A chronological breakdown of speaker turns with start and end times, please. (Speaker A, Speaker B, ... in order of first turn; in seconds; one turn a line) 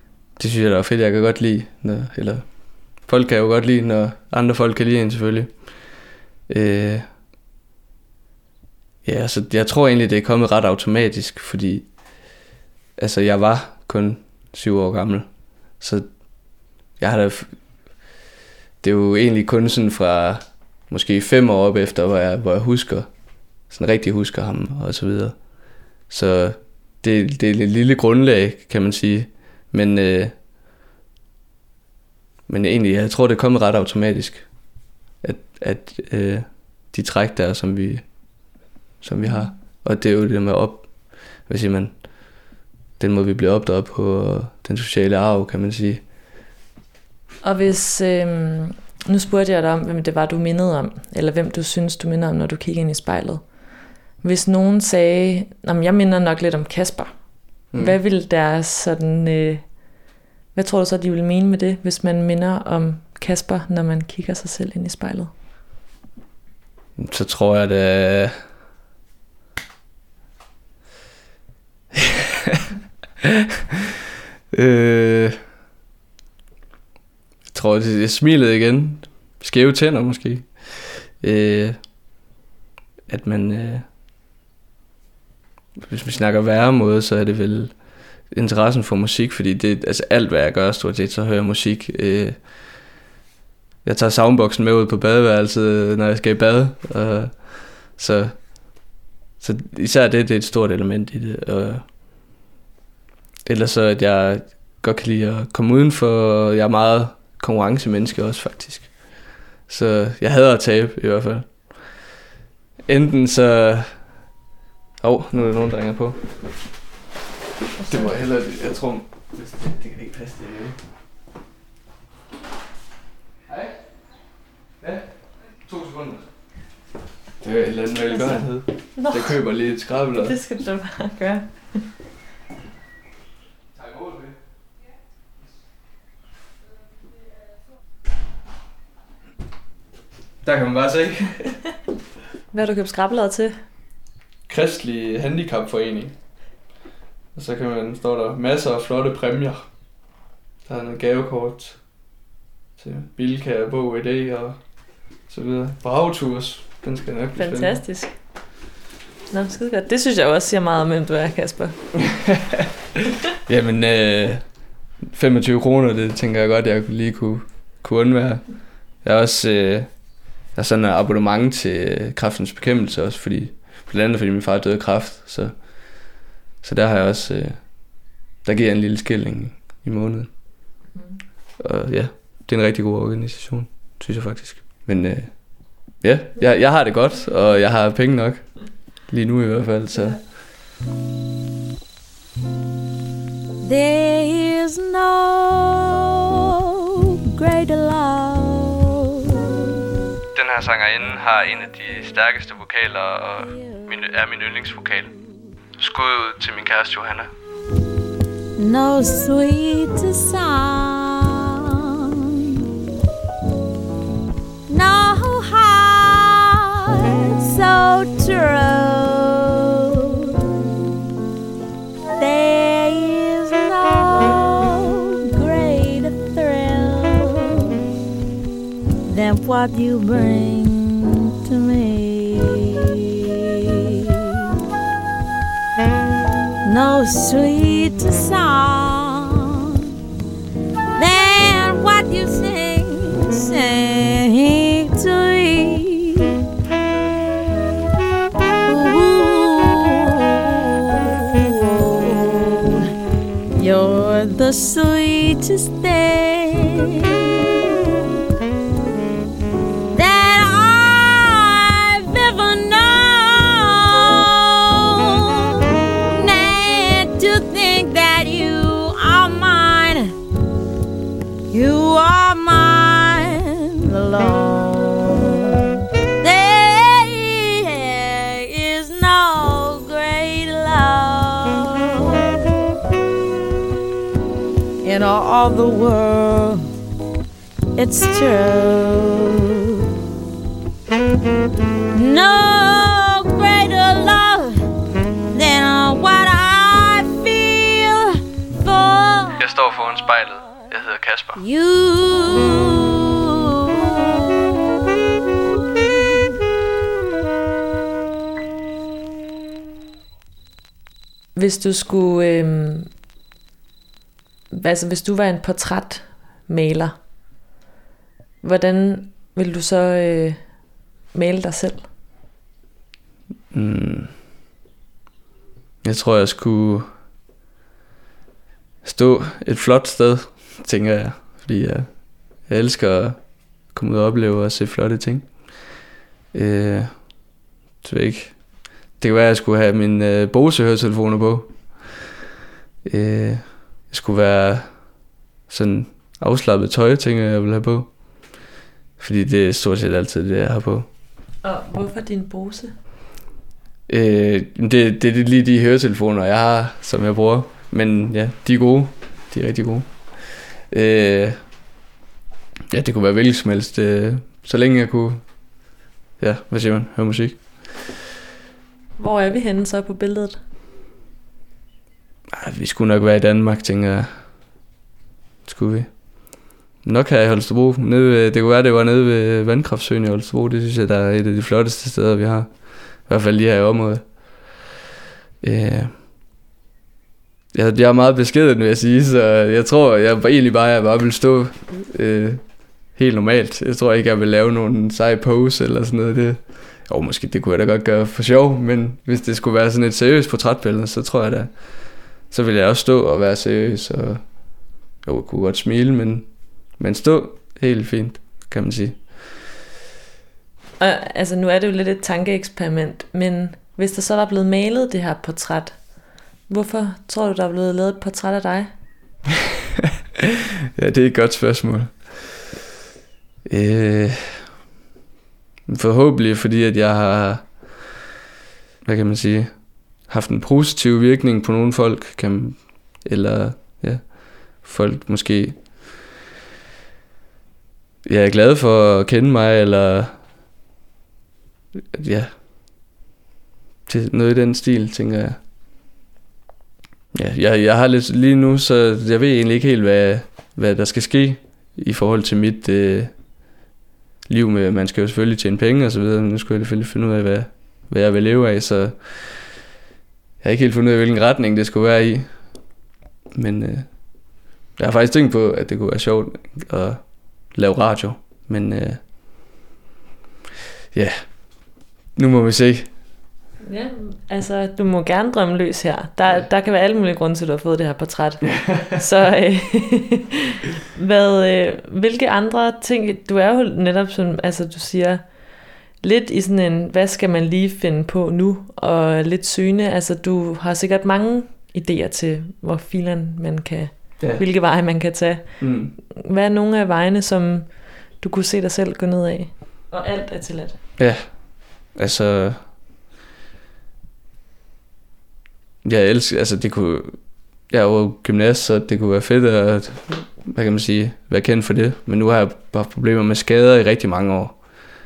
Speaker A: 0.4-2.5
Speaker A: 3.0-5.5
Speaker A: 6.5-7.1
Speaker A: 9.0-11.9
Speaker A: 13.0-15.3
Speaker A: 15.8-16.1
Speaker A: 17.0-17.5
Speaker A: 18.8-23.1
Speaker A: 23.7-25.4
Speaker A: 26.1-30.4
Speaker A: 32.5-34.5
Speaker A: 35.2-38.0
Speaker A: 39.0-40.9
Speaker A: 41.5-41.9
Speaker A: 43.0-46.0
Speaker B: 47.4-53.4
Speaker B: 54.2-57.1
Speaker B: 57.8-59.7
Speaker B: 60.5-65.3
Speaker A: 67.0-68.3
Speaker A: 71.9-72.7
Speaker A: 74.5-75.4
Speaker A: 77.5-81.8
Speaker A: 83.1-83.9
Speaker A: 85.8-87.8
Speaker A: 88.3-92.4
Speaker A: 93.8-98.4
Speaker A: 99.4-101.9
Speaker A: 103.5-111.9
Speaker A: 112.9-114.0
Speaker A: 115.0-116.3
Speaker A: 117.8-120.8
Speaker A: 123.5-123.8
Speaker A: 124.8-126.3
Speaker A: 127.4-130.4
Speaker B: 128.1-129.4
Speaker B: 130.1-131.8
Speaker A: 133.8-134.4
Speaker A: 140.4-141.6
Speaker B: 142.5-143.6
Speaker A: 144.5-146.2
Speaker A: 147.3-149.7
Speaker A: 150.7-151.8
Speaker A: 152.8-154.6
Speaker A: 155.3-157.8
Speaker B: 157.4-158.1
Speaker B: 159.3-161.8
Speaker A: 162.0-162.7
Speaker A: 163.5-164.4
Speaker A: 165.0-168.4
Speaker A: 169.0-169.9
Speaker A: 170.5-175.5
Speaker A: 176.6-177.6
Speaker A: 178.4-180.3
Speaker A: 181.6-188.5
Speaker A: 189.1-190.2
Speaker C: 193.6-196.1
Speaker C: 197.3-199.1
Speaker A: 200.3-205.1
Speaker A: 205.8-207.3
Speaker C: 208.6-211.8
Speaker C: 214.7-219.7
Speaker C: 222.2-227.8
Speaker C: 229.1-233.3
Speaker C: 236.6-239.6
Speaker C: 240.9-246.3
Speaker C: 248.7-252.9
Speaker C: 253.6-257.0
Speaker C: 259.9-265.3
Speaker C: 266.1-270.1
Speaker C: 271.5-275.4
Speaker C: 276.2-282.3
Speaker C: 284.8-286.7
Speaker C: 287.8-289.3
Speaker C: 291.9-294.6
Speaker C: 295.3-299.4
Speaker A: 299.4-301.4
Speaker C: 301.4-303.1
Speaker B: 311.4-312.9
Speaker B: 314.5-317.0
Speaker B: 318.4-320.4
Speaker B: 321.1-321.9
Speaker A: 323.5-324.1
Speaker A: 325.8-326.9
Speaker A: 328.8-331.9
Speaker A: 332.5-333.2
Speaker A: 333.7-335.3
Speaker A: 336.3-336.9
Speaker A: 337.8-338.4
Speaker A: 339.0-342.0
Speaker A: 342.8-344.7
Speaker A: 345.5-347.9
Speaker A: 349.0-350.9
Speaker B: 351.4-352.7
Speaker A: 353.9-359.9
Speaker A: 360.7-361.4
Speaker A: 362.7-365.2
Speaker A: 366.2-367.4
Speaker B: 369.0-370.4
Speaker A: 372.3-374.1
Speaker A: 375.4-375.9
Speaker A: 376.8-382.5
Speaker A: 383.1-384.1
Speaker A: 385.4-385.9
Speaker A: 387.5-392.4
Speaker A: 392.9-401.5
Speaker A: 402.3-404.2
Speaker A: 405.0-409.0
Speaker B: 410.8-415.8
Speaker B: 416.5-418.7
Speaker A: 420.8-422.2
Speaker A: 423.5-424.4
Speaker A: 425.7-427.9
Speaker A: 428.9-435.6
Speaker A: 438.0-440.2
Speaker A: 441.9-442.3
Speaker A: 443.9-445.4
Speaker A: 447.1-453.1
Speaker A: 454.3-459.4
Speaker A: 460.4-462.3
Speaker A: 463.3-463.9
Speaker A: 464.8-469.0
Speaker A: 470.9-471.5
Speaker A: 472.1-472.9
Speaker B: 473.6-485.2
Speaker B: 486.0-500.8
Speaker A: 494.2-494.4
Speaker A: 495.6-495.9
Speaker A: 501.0-502.6
Speaker A: 505.8-507.2
Speaker A: 507.7-514.6